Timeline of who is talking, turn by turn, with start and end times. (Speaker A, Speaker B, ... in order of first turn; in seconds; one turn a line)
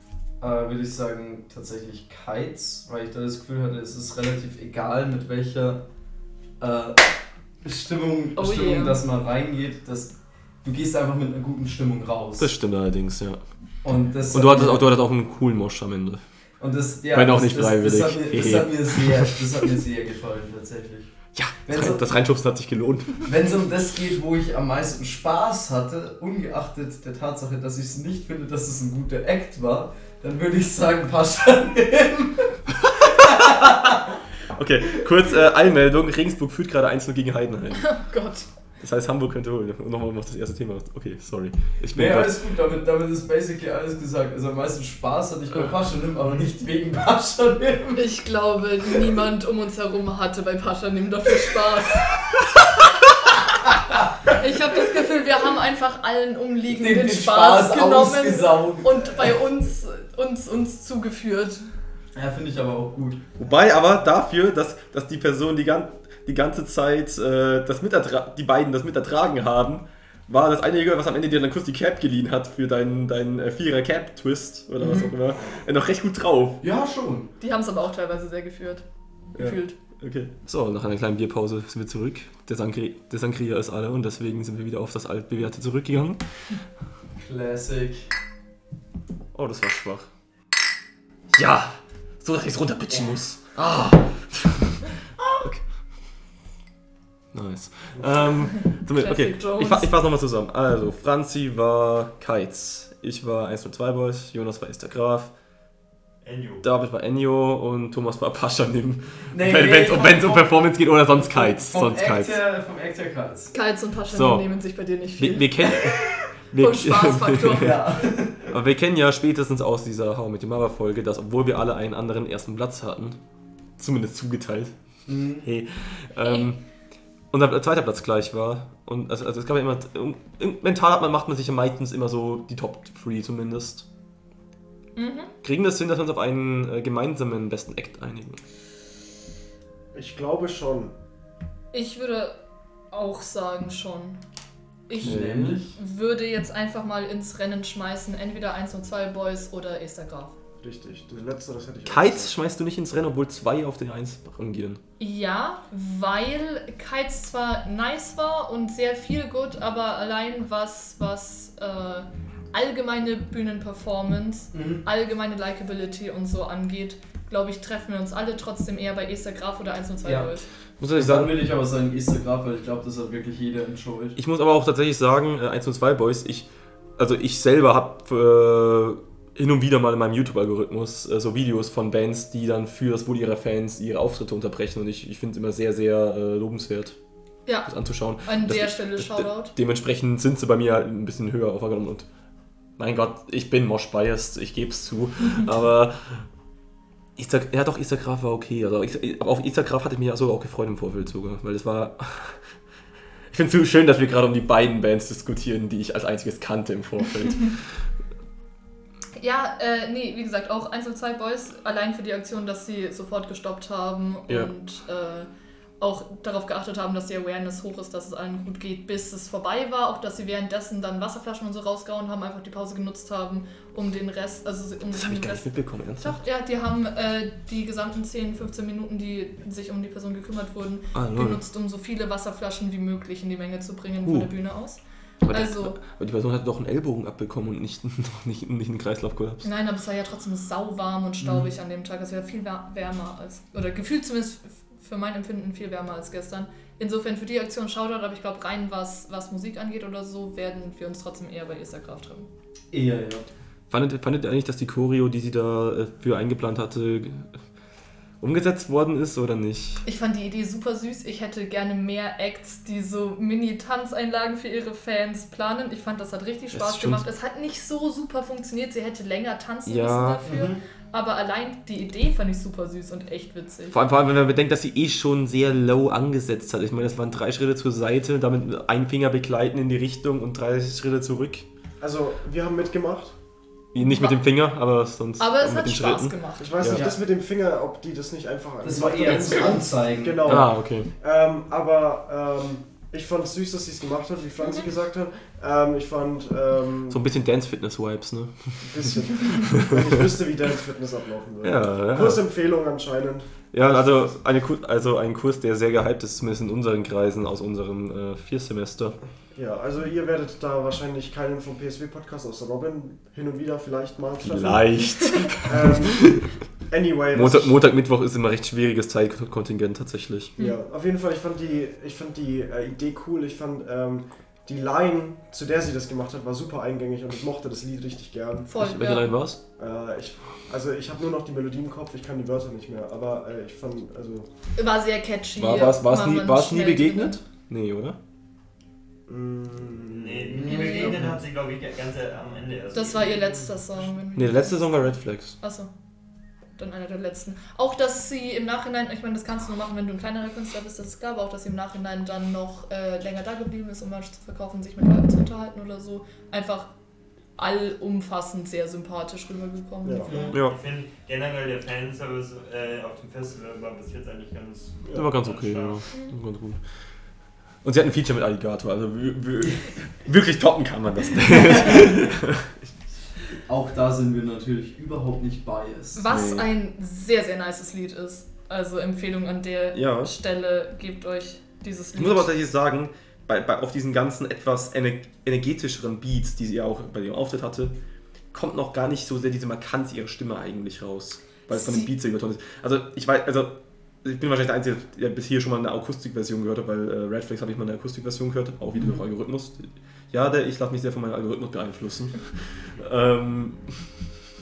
Speaker A: 0.4-5.9
Speaker A: 6.6-7.1
Speaker A: 7.6-12.5
Speaker B: 8.4-9.0
Speaker C: 12.4-13.4
Speaker A: 13.8-14.9
Speaker C: 14.3-16.2
Speaker A: 16.6-21.1
Speaker C: 17.1-19.4
Speaker C: 21.3-23.3
Speaker A: 21.7-22.1
Speaker A: 23.2-32.6
Speaker A: 33.2-33.9
Speaker C: 33.2-33.9
Speaker C: 34.5-38.0
Speaker B: 37.7-38.5
Speaker C: 38.8-42.4
Speaker A: 41.9-48.0
Speaker B: 48.0-52.1
Speaker B: 54.2-61.6
Speaker A: 56.7-59.3
Speaker A: 62.1-63.2
Speaker C: 63.4-76.6
Speaker A: 76.6-77.3
Speaker B: 77.4-78.8
Speaker B: 79.4-79.8
Speaker C: 80.0-86.2
Speaker A: 87.2-88.0
Speaker C: 89.3-90.1
Speaker C: 91.3-95.6
Speaker C: 97.3-105.3
Speaker B: 98.9-99.9
Speaker D: 106.2-106.7
Speaker C: 106.6-112.4
Speaker A: 109.3-113.5
Speaker B: 113.5-117.8
Speaker C: 114.1-114.5
Speaker C: 115.2-117.7
Speaker A: 117.5-118.5
Speaker C: 118.5-123.2
Speaker C: 123.8-124.7
Speaker A: 125.1-125.5
Speaker C: 125.4-126.6
Speaker C: 127.3-133.9
Speaker B: 135.0-135.3
Speaker C: 135.4-138.4
Speaker E: 139.9-140.9
Speaker B: 141.7-142.4
Speaker B: 142.9-144.2
Speaker B: 144.9-145.2
Speaker A: 145.0-145.8
Speaker C: 145.0-145.6
Speaker B: 145.8-150.3
Speaker E: 150.6-152.3
Speaker C: 151.9-154.8
Speaker B: 155.0-170.5
Speaker A: 164.5-164.8
Speaker A: 170.0-170.3
Speaker C: 170.8-171.4
Speaker A: 170.9-174.2
Speaker C: 174.2-187.0
Speaker B: 187.5-189.5
Speaker C: 187.7-192.1
Speaker C: 192.8-196.2
Speaker C: 197.2-202.4
Speaker C: 203.3-207.6
Speaker B: 209.2-215.3
Speaker B: 215.8-235.8
Speaker C: 224.9-226.2
Speaker C: 230.9-231.4
Speaker C: 234.0-234.3
Speaker C: 235.2-239.4
Speaker B: 239.4-252.3
Speaker A: 252.7-253.3
Speaker C: 253.7-257.3
Speaker C: 258.2-259.8
Speaker B: 259.9-273.8
Speaker C: 266.5-267.0
Speaker C: 269.7-270.3
Speaker A: 270.2-270.6
Speaker C: 273.7-281.4
Speaker E: 281.8-283.1
Speaker C: 283.7-286.9
Speaker B: 283.8-284.2
Speaker B: 285.2-286.5
Speaker E: 286.4-297.0
Speaker A: 286.7-287.0
Speaker A: 288.6-290.5
Speaker C: 290.2-290.9
Speaker C: 296.9-299.9
Speaker E: 298.6-303.3
Speaker C: 301.4-302.2
Speaker C: 303.5-309.0
Speaker E: 309.3-314.8
Speaker C: 314.2-316.3
Speaker E: 315.4-316.1
Speaker E: 316.7-317.6
Speaker C: 317.1-320.3
Speaker E: 320.4-328.5
Speaker B: 328.5-329.2
Speaker C: 328.6-329.4
Speaker E: 329.6-334.3
Speaker B: 334.6-337.2
Speaker C: 335.4-338.0
Speaker E: 339.1-340.6
Speaker D: 339.9-343.2
Speaker A: 340.5-341.2
Speaker B: 340.5-340.9
Speaker B: 342.7-345.7
Speaker C: 344.1-345.4
Speaker B: 346.6-356.7
Speaker B: 357.4-360.4
Speaker E: 359.8-360.3
Speaker D: 360.1-365.9
Speaker C: 364.9-366.6
Speaker C: 367.6-372.5
Speaker A: 373.5-376.1
Speaker B: 375.9-382.3
Speaker C: 376.1-376.5
Speaker C: 379.7-380.1
Speaker C: 381.9-387.8
Speaker C: 388.3-403.6
Speaker B: 391.5-391.9